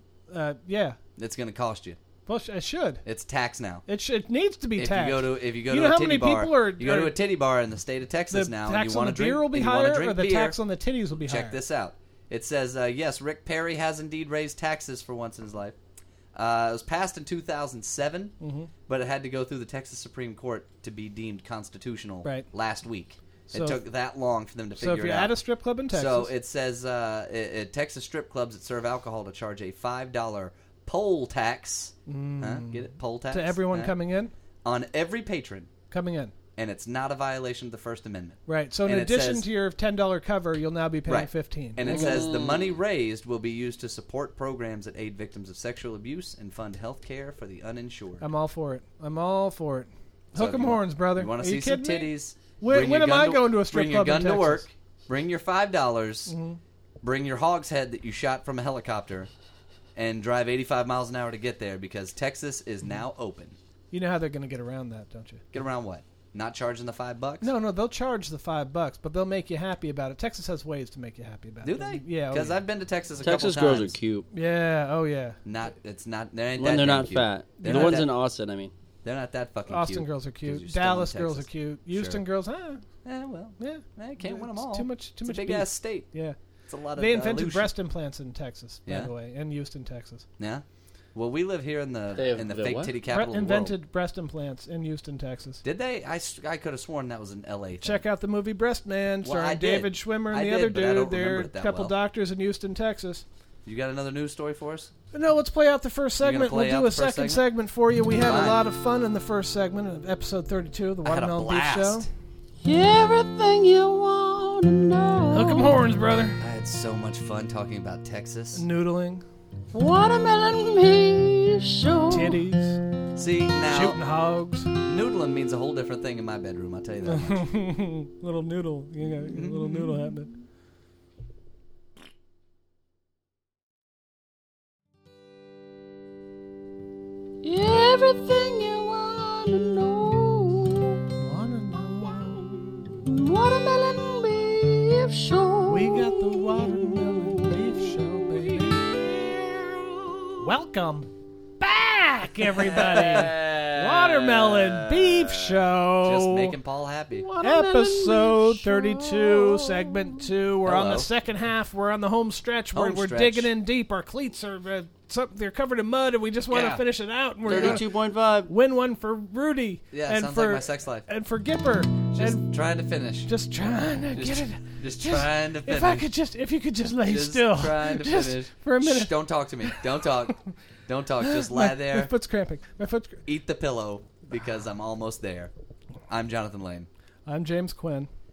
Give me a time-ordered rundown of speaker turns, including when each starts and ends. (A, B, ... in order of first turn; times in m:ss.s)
0:00.3-0:01.0 A
0:01.2-0:02.0 B
0:02.2-0:03.0 A
0:03.0-0:03.8 B
0:03.8-0:07.2 A
0:04.8-0:10.6 B
0:08.3-0:11.6 A
0:11.1-0:15.7 B
0:16.3-0:18.3 B
0:18.4-0:18.7 A
0:18.9-0:25.3 B
0:23.5-0:23.8 A
0:24.8-0:26.3 A
0:25.9-0:33.9 B
0:32.1-0:34.3 A
0:34.6-0:35.7 B
0:35.9-0:36.3 A
0:36.6-0:39.4 B
0:38.5-0:42.2 A
0:41.1-0:48.2 B
0:41.8-0:42.7 C
0:48.2-0:54.6 A
0:50.4-0:56.3 B
0:56.3-0:56.6 A
0:57.0-0:59.3 B
1:00.0-1:03.6 B
1:03.9-1:05.4 A
1:05.5-1:07.5 B
1:07.4-1:12.6 A
1:11.6-1:13.9 B
1:13.2-1:14.2 C
1:14.3-1:15.4 A
1:15.4-1:18.1 B
1:16.6-1:18.7 C
1:17.6-1:18.1 A
1:19.0-1:22.2 B
1:19.7-1:22.8 A
1:23.0-1:26.1 B
1:23.6-1:26.4 A
1:26.7-1:27.7 B
1:27.0-1:30.2 A
1:30.4-1:30.6 B
1:31.1-1:33.7 B
1:32.1-1:32.9 C
1:33.1-1:35.6 A
1:35.6-1:38.0 B
1:37.8-1:43.2 A
1:39.2-1:41.9 B
1:43.6-1:44.9 B
1:45.1-1:52.1 A
1:46.2-1:47.5 B
1:48.2-1:48.6 B
1:51.0-1:52.1 B
1:52.6-1:55.7 C
1:55.3-1:56.4 A
1:56.4-1:58.6 B
1:58.5-1:59.2 A
1:59.7-2:02.4 C
2:02.1-2:02.8 A
2:03.2-2:04.0 B
2:03.7-2:04.7 A
2:04.8-2:07.4 B
2:07.0-2:10.3 A
2:09.1-2:10.1 B
2:17.4-2:21.0 C
2:21.2-2:22.9 A
2:22.6-2:30.3 C
2:25.6-2:29.0 A
2:30.4-2:36.6 A
2:32.7-2:35.6 C
2:32.7-2:33.3 B
2:36.0-2:37.3 B
2:37.1-2:40.2 C
2:37.4-2:47.9 A
2:40.6-2:41.1 B
2:42.7-2:43.5 B
2:46.5-2:46.8 B
2:47.4-2:48.5 C
2:47.5-2:47.8 B
2:48.5-2:52.4 A
2:49.9-2:51.1 B
2:52.1-2:53.3 B
2:53.2-3:00.3 A
2:54.1-2:56.1 B
2:57.0-3:02.1 B
3:01.2-3:03.2 A
3:03.2-3:05.5 B
3:06.1-3:06.9 B
3:07.2-3:08.1 A